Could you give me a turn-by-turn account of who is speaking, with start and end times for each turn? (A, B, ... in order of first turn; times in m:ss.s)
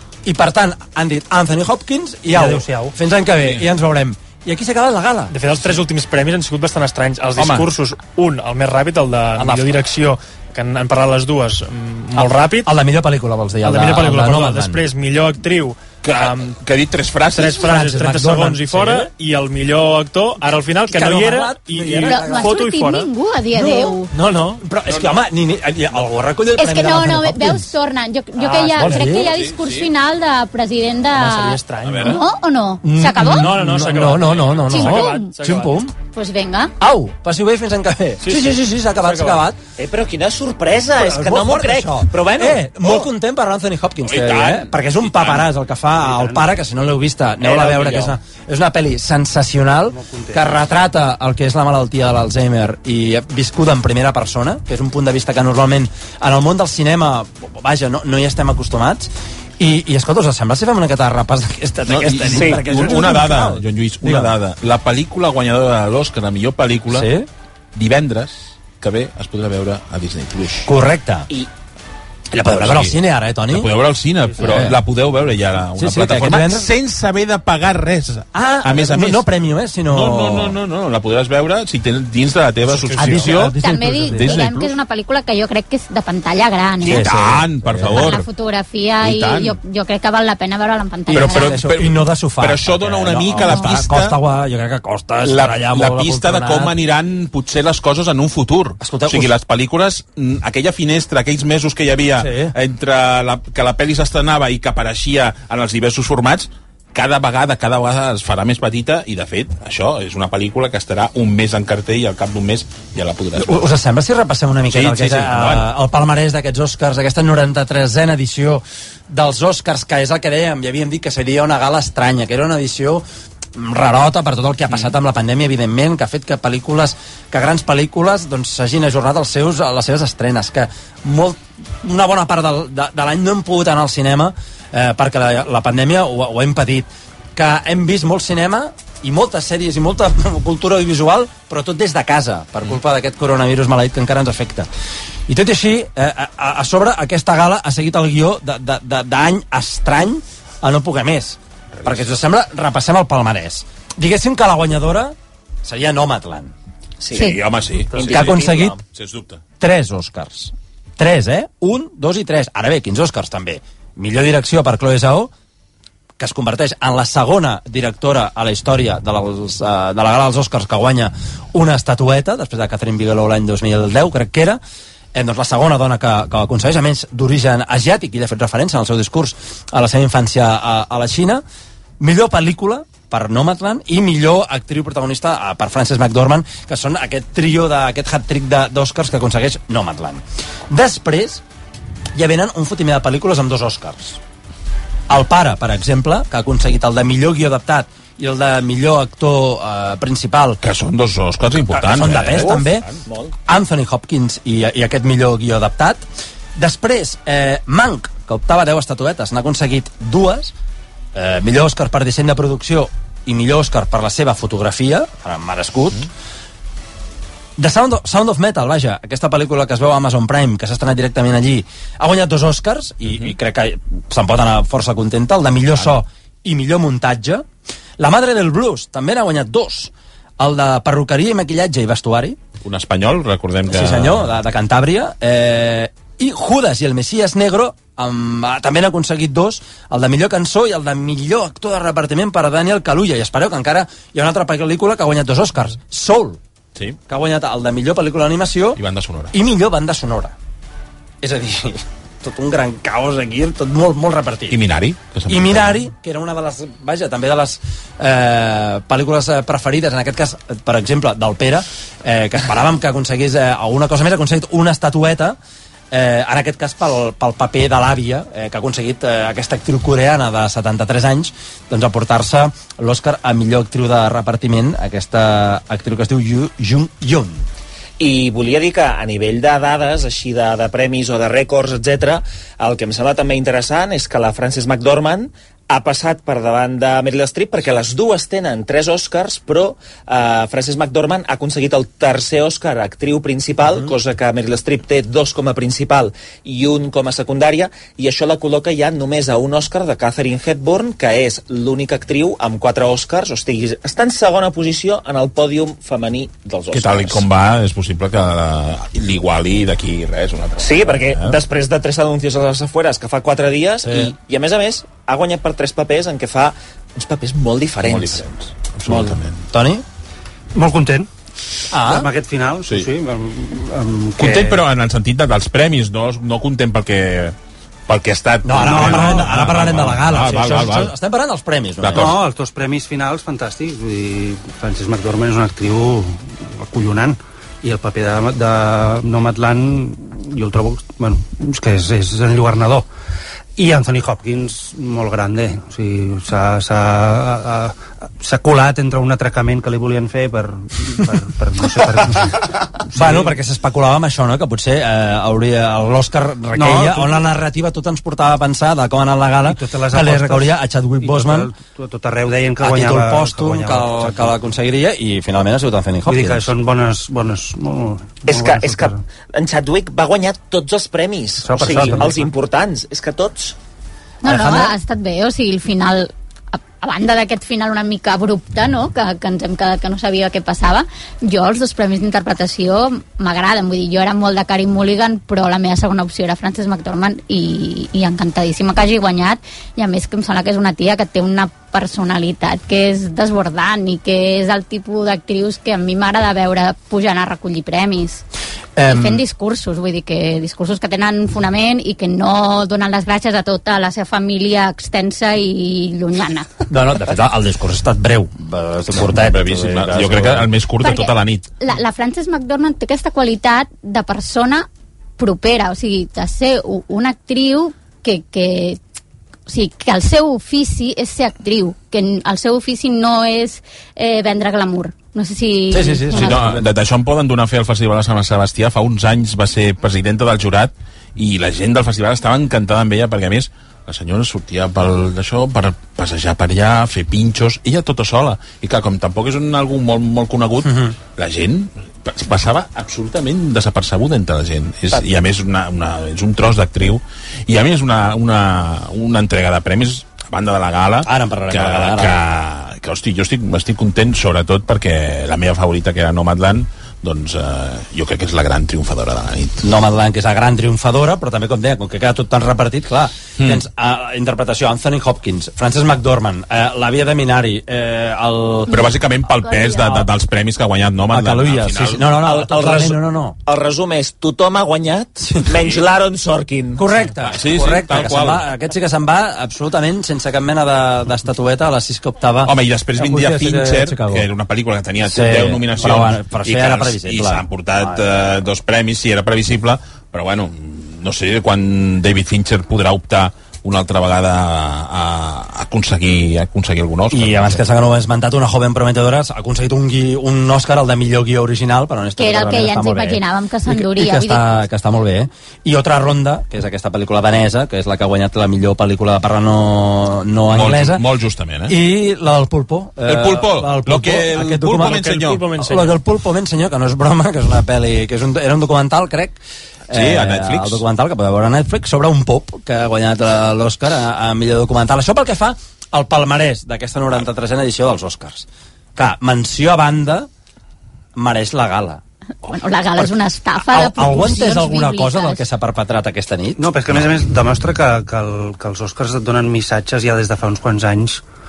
0:00.3-0:05.3 A
0:02.3-0:02.9 B
0:03.4-0:03.7 C
0:05.3-0:12.7 D
0:07.4-0:07.7 C
0:09.4-0:09.7 A
0:12.2-0:14.8 A
0:13.6-0:16.6 D
0:16.0-0:17.7 C
0:17.3-0:24.6 D
0:17.5-0:19.1 A
0:20.9-0:22.6 A
0:22.0-0:24.1 E
0:23.6-0:27.7 A
0:26.6-0:33.5 E
0:28.4-0:28.8 D
0:28.8-0:29.3 A
0:29.1-0:29.9 C
0:31.1-0:32.2 D
0:31.8-0:32.2 C
0:32.8-0:35.9 A
0:33.1-0:35.9 D
0:34.7-0:35.3 E
0:36.1-0:36.7 E
0:36.8-0:39.6 A
0:38.2-0:39.4 D
0:39.8-0:43.0 F
0:41.0-1:04.4 A
0:44.0-0:45.5 C
0:46.0-0:46.5 B
0:47.6-0:47.9 B
0:49.9-0:50.5 B
1:01.9-1:07.1 C
1:02.3-1:02.6 F
1:06.9-1:07.3 A
1:07.8-1:10.7 C
1:10.7-1:11.3 A
1:12.3-1:13.7 A
1:12.5-1:13.0 C
1:13.5-1:19.2 C
1:14.4-1:14.8 A
1:15.8-1:16.7 A
1:18.4-1:20.6 A
1:19.9-1:23.6 C
1:22.7-1:23.4 D
1:22.9-1:24.4 A
1:23.5-1:27.1 E
1:24.1-1:24.7 C
1:26.8-1:28.3 C
1:26.8-1:28.1 A
1:27.9-1:31.6 E
1:29.0-1:29.6 C
1:31.1-1:36.8 A
1:31.1-1:34.2 C
1:33.4-1:33.8 E
1:35.2-1:53.7 C
1:38.8-1:39.3 A
1:42.2-1:42.5 A
1:53.4-2:03.0 A
1:54.7-1:55.7 C
2:03.6-2:24.7 A
2:25.3-2:36.5 A
2:31.8-2:32.1 C
2:37.0-2:37.4 F
2:37.1-2:39.4 C
2:37.1-2:37.4 A
2:37.9-2:38.8 F
2:38.0-2:38.8 A
2:39.6-2:45.3 A
2:46.2-2:54.6 A
2:55.1-3:01.4 A
3:02.0-3:11.4 A
3:12.2-3:14.2 A
3:15.1-3:20.6 A
3:20.6-3:23.0 C
3:21.7-3:22.9 A
3:23.5-3:26.0 A
3:26.6-3:30.5 A
3:31.2-3:36.1 A
3:37.6-3:47.5 A
3:43.1-3:43.3 C
3:48.0-3:52.4 A
3:52.6-3:54.3 C
3:53.7-4:06.4 A
4:07.1-4:08.8 A
4:08.8-4:09.3 C
4:09.3-4:10.4 A
4:11.2-4:14.6 A
4:14.5-4:15.9 C
4:15.3-4:25.4 A
4:25.9-4:37.5 A
4:38.0-5:07.2 F
4:53.6-4:53.9 A
5:06.7-5:11.4 C
5:10.6-5:18.2 F
5:13.9-5:14.1 A
5:17.8-5:19.4 C
5:18.8-5:19.8 A
5:20.6-5:21.1 B
5:21.7-5:22.1 A
5:21.8-5:24.6 B
5:24.2-5:27.4 C
5:27.9-5:30.9 C
5:28.4-5:32.1 A
5:31.8-5:32.2 C
5:32.0-5:42.9 B
5:43.6-5:53.4 B
5:52.9-6:01.5 A
5:56.6-5:57.3 B
5:59.4-6:04.4 B
6:02.6-6:06.5 A
6:06.1-6:09.0 B
6:08.3-6:13.6 F
6:11.4-6:12.2 B
6:11.7-6:12.1 A
6:14.2-6:38.2 E
6:14.2-6:14.8 A
6:38.8-6:39.2 A
6:38.8-6:46.5 E
6:46.7-6:50.5 A
6:48.9-6:51.4 C
6:50.8-6:54.7 E
6:55.2-6:58.8 E
6:59.5-7:06.4 E
7:05.7-7:06.7 A
7:06.1-7:39.6 C
7:20.6-7:21.0 A
7:31.0-7:32.2 A
7:39.6-7:48.7 A
7:48.7-7:52.1 C
7:48.7-7:50.1 E
7:51.1-7:53.4 A
7:52.2-7:56.9 F
7:55.5-7:55.8 C
7:56.8-8:04.3 A
7:57.3-7:58.4 C
8:02.4-8:17.6 C
8:05.0-8:08.3 A
8:17.1-8:31.0 A
8:22.2-8:24.5 E
8:30.5-8:31.8 C
8:31.7-8:39.4 A
8:33.0-8:35.5 C
8:34.8-8:36.0 D
8:39.9-8:50.3 A
8:39.9-8:40.8 C
8:51.2-8:52.0 A
8:52.4-8:55.4 E
8:53.0-8:56.7 A
8:56.6-9:01.2 B